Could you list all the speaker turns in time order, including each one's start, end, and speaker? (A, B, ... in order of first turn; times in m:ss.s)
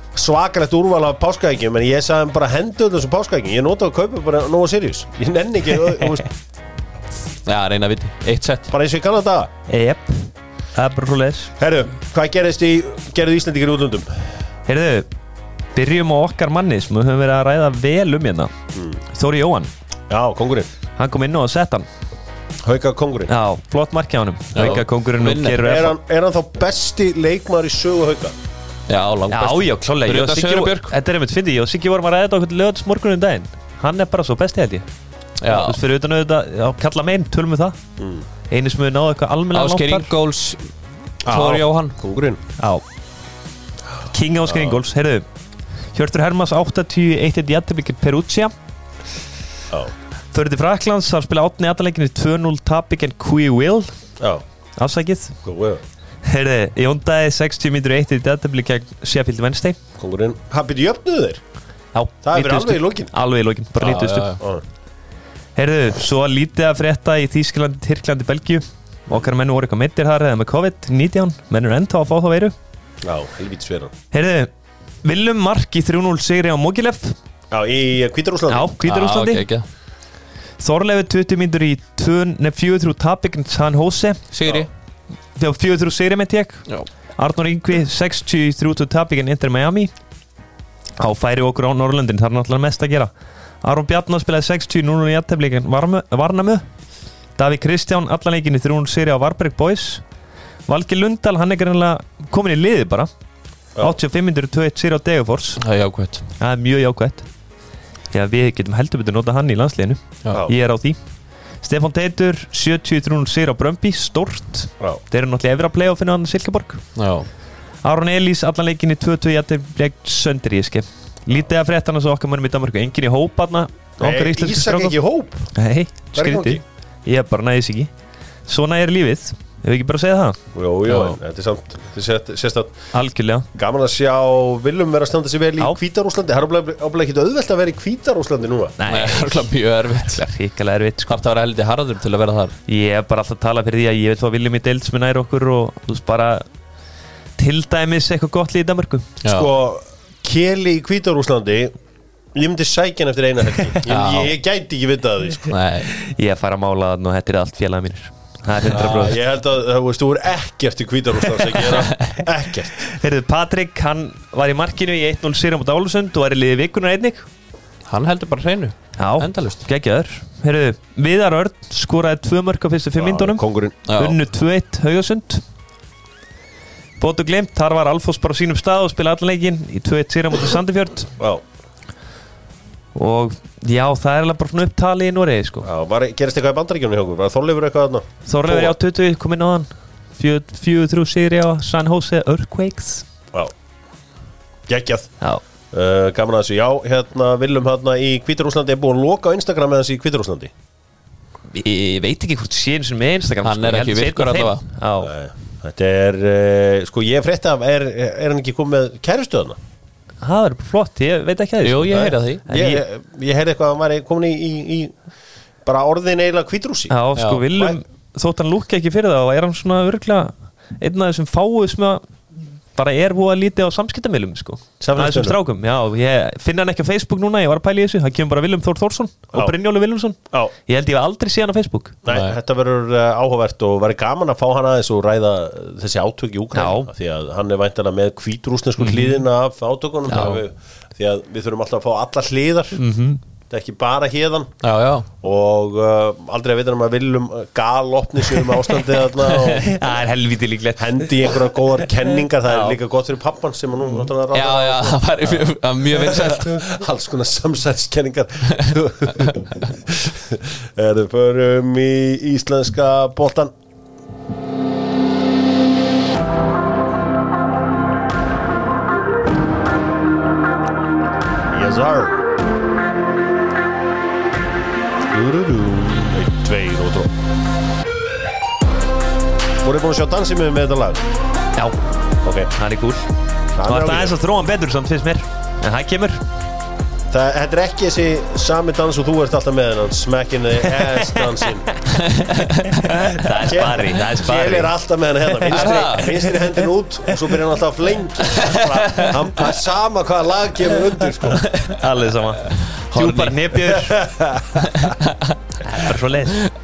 0:00.1-0:06.3 A
0:07.5-0:08.7 B
0:08.7-0:09.5 A
0:09.7-0:11.5 C
0:11.6-0:14.3 A
0:14.7-0:15.1 C
0:15.8-0:18.5 C
0:18.7-0:19.0 A
0:19.1-0:19.7 C
0:20.1-0:20.7 A
0:21.0-0:21.9 C
0:22.6-0:23.3 A
0:23.3-0:26.0 C
0:24.6-0:25.8 B
0:25.6-0:28.3 A
0:28.9-0:30.9 B
0:29.3-0:34.9 C
0:35.4-0:35.8 B
0:35.5-0:37.8 C
0:38.0-0:38.2 A
0:38.5-0:40.1 C
0:39.5-0:40.7 B
0:41.2-0:42.0 B
0:41.3-0:42.4 A
0:44.1-0:45.3 C
0:44.5-0:44.8 A
0:45.9-0:48.5 C
0:50.3-0:53.9 C
0:54.8-0:55.4 C
0:55.4-0:55.8 A
0:56.2-0:59.8 C
1:00.0-1:01.4 A
1:01.9-1:04.4 C
1:02.2-1:03.1 A
1:03.8-1:04.4 B
1:05.6-1:12.5 C
1:13.0-1:13.9 A
1:14.1-1:14.5 C
1:15.0-1:17.2 C
1:17.5-1:18.7 A
1:18.5-1:19.5 C
1:18.8-1:19.6 B
1:20.6-1:24.2 C
1:24.3-1:24.7 B
1:25.4-1:26.6 C
1:27.2-1:29.9 C
1:31.0-1:33.1 C
1:33.6-1:36.6 C
1:37.4-1:40.0 C
1:40.7-1:43.1 C
1:43.8-1:45.6 C
1:45.6-1:46.2 B
1:46.4-1:47.3 C
1:48.1-1:51.0 C
1:51.6-1:56.8 C
1:57.0-1:57.3 B
1:57.8-2:05.0 C
2:04.0-2:05.5 A
2:05.5-2:07.9 C
2:06.2-2:06.6 A
2:08.5-2:10.4 C
2:10.5-2:12.7 A
2:10.9-2:11.1 B
2:12.9-2:13.5 C
2:13.6-2:18.8 A
2:18.8-2:21.2 C
2:18.9-2:20.3 B
2:21.1-2:22.6 B
2:22.7-2:26.4 C
2:27.4-2:29.1 C
2:29.2-2:29.5 B
2:29.2-2:31.7 A
2:32.3-2:35.5 A
2:33.9-2:34.4 B
2:35.5-2:35.9 B
2:35.8-2:39.2 C
2:38.6-2:42.8 A
2:38.7-2:39.1 B
2:41.5-2:41.9 C
2:42.8-2:47.3 C
2:47.9-2:49.6 B
2:49.0-2:53.4 C
2:53.0-2:53.8 A
2:53.9-2:54.2 B
2:54.0-2:55.4 C
2:57.0-3:01.1 C
3:01.2-3:01.4 A
3:03.0-3:05.7 C
3:05.6-3:08.8 A
3:08.3-3:13.0 C
3:14.7-3:15.1 A
3:15.7-3:20.5 A
3:21.5-3:25.1 C
3:23.4-3:24.6 B
3:25.0-3:29.6 A
3:30.2-3:32.8 C
3:31.6-3:32.6 B
3:31.9-3:35.0 A
3:35.6-3:37.0 A
3:36.9-3:42.0 C
3:37.2-3:37.4 B
3:37.5-3:37.8 A
3:42.7-3:52.0 C
3:44.8-3:45.4 A
3:52.0-4:02.8 A
3:52.1-3:52.4 B
3:56.5-3:56.9 C
3:58.8-3:59.2 C
4:00.1-4:00.4 C
4:02.8-4:03.2 C
4:03.5-4:04.6 A
4:04.6-4:05.1 B
4:05.2-4:09.8 A
4:09.3-4:11.4 C
4:10.8-4:23.5 A
4:12.5-4:12.8 C
4:14.3-4:16.6 B
4:31.5-4:32.2 A
4:35.1-4:37.1 A
4:39.6-4:41.0 A
4:42.2-4:42.5 A
4:42.5-4:43.1 C
4:43.6-4:44.2 A
4:43.6-4:46.2 C
4:47.1-4:51.8 A
4:52.0-4:53.0 B
4:52.8-4:54.7 C
4:53.4-5:01.4 A
4:55.5-4:55.8 C
4:55.5-4:56.4 B
4:58.2-4:59.5 B
5:01.3-5:01.8 B
5:01.6-5:04.0 C
5:02.9-5:03.8 B
5:03.7-5:05.0 A
5:04.6-5:05.4 B
5:05.6-5:06.4 C